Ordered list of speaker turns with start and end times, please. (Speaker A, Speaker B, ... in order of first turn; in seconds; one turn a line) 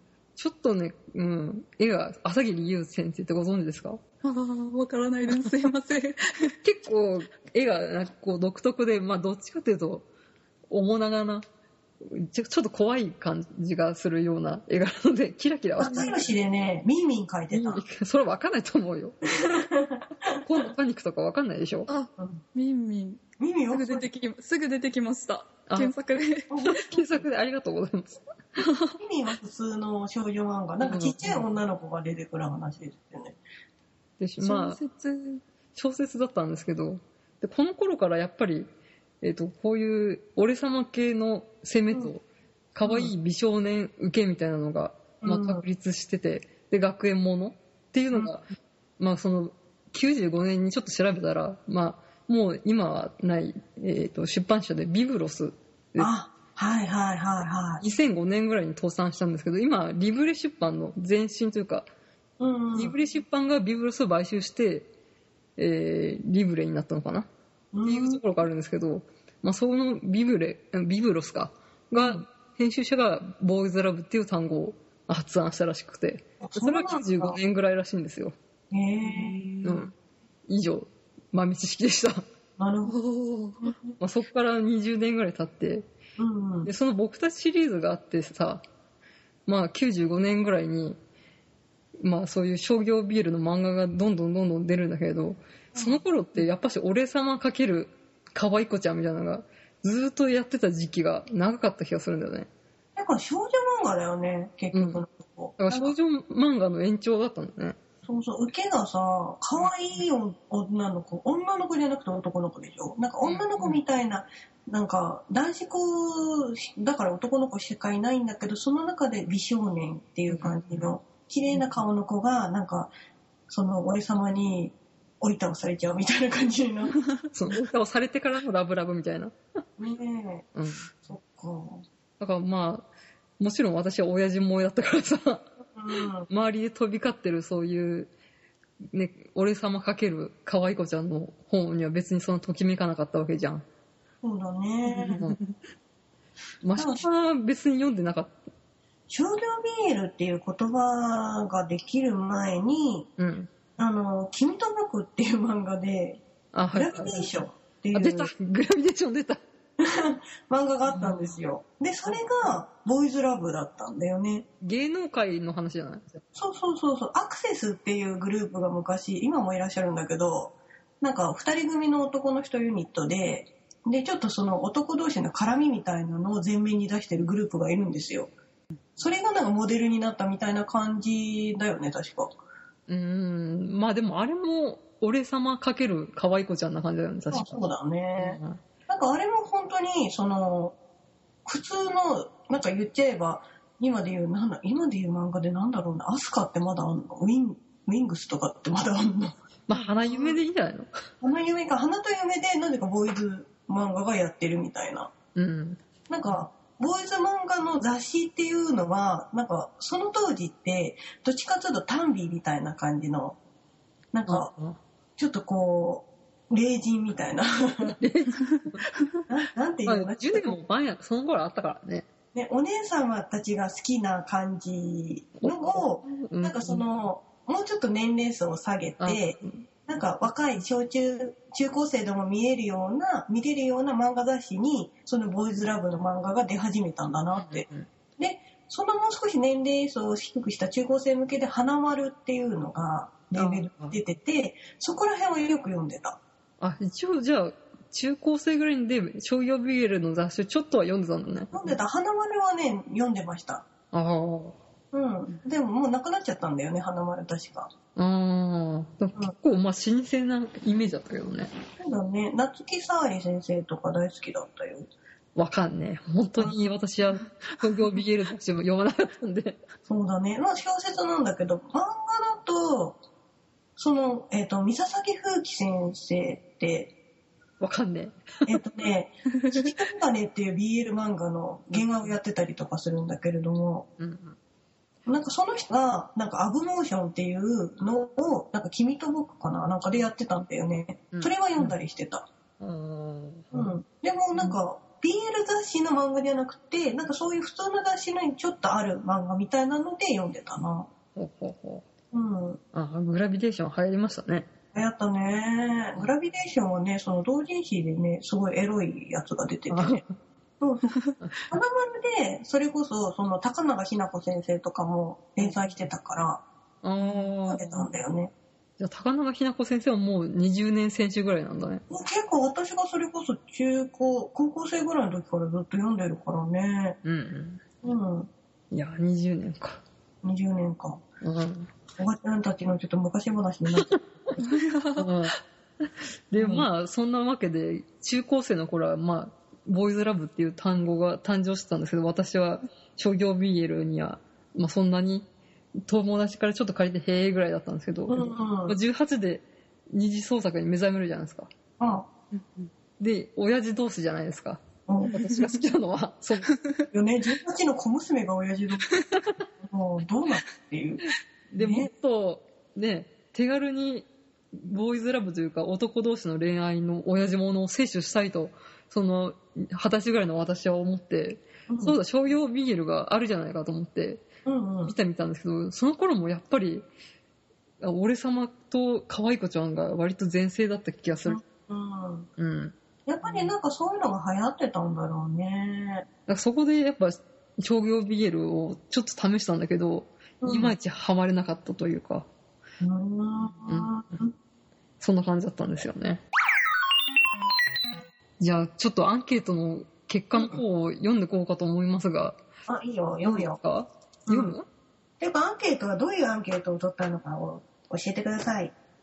Speaker A: 0.4-4.0
Speaker B: 4.2-6.6
Speaker A: 6.6-10.1
Speaker A: 10.7-11.5
Speaker A: 12.0-16.3
Speaker C: 15.8-17.8
Speaker A: 17.5-19.1
Speaker C: 19.4-20.4
Speaker A: 20.4-21.9
Speaker B: 21.9-26.5
Speaker C: 23.4-24.1
Speaker A: 25.7-25.9
Speaker C: 26.5-27.2
Speaker A: 26.6-28.2
Speaker B: 28.6-29.0
Speaker C: 29.0-33.4
Speaker A: 30.8-31.4
Speaker A: 34.2-34.8
Speaker B: 34.4-35.4
Speaker A: 35.8-38.7
Speaker A: 39.2-48.5
Speaker C: 42.9-43.1
Speaker C: 45.2-45.6
Speaker A: 49.0-56.1
Speaker C: 56.0-57.8
Speaker A: 57.8-61.9
Speaker C: 62.4-63.0
Speaker A: 62.8-64.9
Speaker A: 65.6-67.3
Speaker C: 67.7-68.2
Speaker A: 67.8-78.4
Speaker C: 76.4-77.4
Speaker C: 78.7-79.5
Speaker B: 79.2-79.6
Speaker A: 79.6-79.9
Speaker A: 80.5-82.2
Speaker C: 82.6-83.0
Speaker B: 82.9-83.7
Speaker A: 84.0-85.9
Speaker C: 86.2-86.7
Speaker A: 86.6-88.6
Speaker A: 89.5-91.0
Speaker A: 92.0-102.5
Speaker C: 103.0-106.0
Speaker A: 104.7-105.0
Speaker A: 105.6-107.8
Speaker C: 108.0-122.9
Speaker A: 113.2-113.8
Speaker A: 120.3-120.8
Speaker C: 123.5-127.0
Speaker A: 127.3-129.4
Speaker C: 129.8-130.5
Speaker A: 130.6-130.9
Speaker C: 131.0-131.8
Speaker A: 132.2-132.9
Speaker A: 133.4-135.5
Speaker C: 135.7-136.3
Speaker A: 136.3-138.1
Speaker A: 138.9-143.6
Speaker C: 144.2-145.2
Speaker A: 144.9-145.4
Speaker A: 146.6-148.4
Speaker C: 146.8-147.1
Speaker C: 149.1-153.1
Speaker A: 153.2-153.5
Speaker C: 153.8-158.3
Speaker A: 156.5-157.3
Speaker A: 157.9-159.4
Speaker C: 159.8-164.5
Speaker A: 160.9-161.3
Speaker A: 164.6-166.2
Speaker C: 166.3-178.3
Speaker C: 179.0-182.3
Speaker A: 182.9-187.6
Speaker C: 187.3-190.8
Speaker A: 188.2-188.6
Speaker C: 191.4-200.4
Speaker A: 199.7-201.0
Speaker C: 201.2-205.1
Speaker A: 205.3-205.8
Speaker C: 206.1-213.4
Speaker C: 214.1-214.5
Speaker A: 214.3-214.8
Speaker C: 215.2-218.0
Speaker A: 217.8-218.8
Speaker C: 219.3-220.6
Speaker A: 219.9-222.1
Speaker C: 222.3-237.7
Speaker A: 225.4-226.8
Speaker A: 229.0-229.6
Speaker A: 237.3-237.9
Speaker C: 238.2-246.2
Speaker A: 243.3-244.0
Speaker A: 246.6-251.5
Speaker C: 251.5-253.7
Speaker A: 253.9-254.6
Speaker C: 254.9-257.7
Speaker A: 258.0-261.5
Speaker C: 261.8-264.9
Speaker A: 265.4-269.6
Speaker C: 269.9-273.0
Speaker C: 273.8-276.9
Speaker A: 277.6-278.6
Speaker C: 278.5-283.9
Speaker A: 281.8-282.0
Speaker A: 284.0-284.4
Speaker C: 285.1-292.2
Speaker A: 291.1-291.8
Speaker A: 292.6-293.7
Speaker C: 293.5-300.9
Speaker A: 301.1-301.9
Speaker C: 302.1-302.6
Speaker A: 302.7-304.5
Speaker C: 304.7-310.0
Speaker A: 309.7-310.1
Speaker C: 310.6-310.9
Speaker A: 311.2-311.5
Speaker C: 311.5-316.4
Speaker A: 315.4-315.7
Speaker A: 316.8-317.9
Speaker C: 317.5-318.3
Speaker A: 318.8-321.8
Speaker C: 321.9-327.0
Speaker A: 327.0-327.6
Speaker C: 327.8-328.3
Speaker A: 328.7-329.8
Speaker C: 330.2-331.0
Speaker A: 331.2-331.7
Speaker C: 332.0-334.0
Speaker A: 333.8-334.3
Speaker B: 334.4-335.1
Speaker A: 335.0-335.4
Speaker A: 336.3-345.3
Speaker C: 336.4-336.7
Speaker A: 345.9-351.5
Speaker C: 348.1-348.8
Speaker C: 351.8-352.1
Speaker B: 352.3-352.7
Speaker A: 353.0-356.5
Speaker C: 354.9-355.2
Speaker B: 355.2-355.5
Speaker C: 356.9-358.9
Speaker C: 359.6-361.0
Speaker A: 361.5-374.3
Speaker C: 361.6-361.9
Speaker C: 371.7-372.0
Speaker C: 374.4-374.9
Speaker A: 374.8-376.9
Speaker A: 377.8-381.4
Speaker C: 381.2-382.3
Speaker A: 382.4-383.5
Speaker C: 383.1-386.1
Speaker A: 386.3-392.3
Speaker C: 390.4-390.8
Speaker C: 392.8-394.3
Speaker A: 395.0-396.2
Speaker A: 398.4-402.4
Speaker C: 402.7-403.6
Speaker A: 403.2-404.7
Speaker C: 404.3-404.5
Speaker C: 405.2-408.7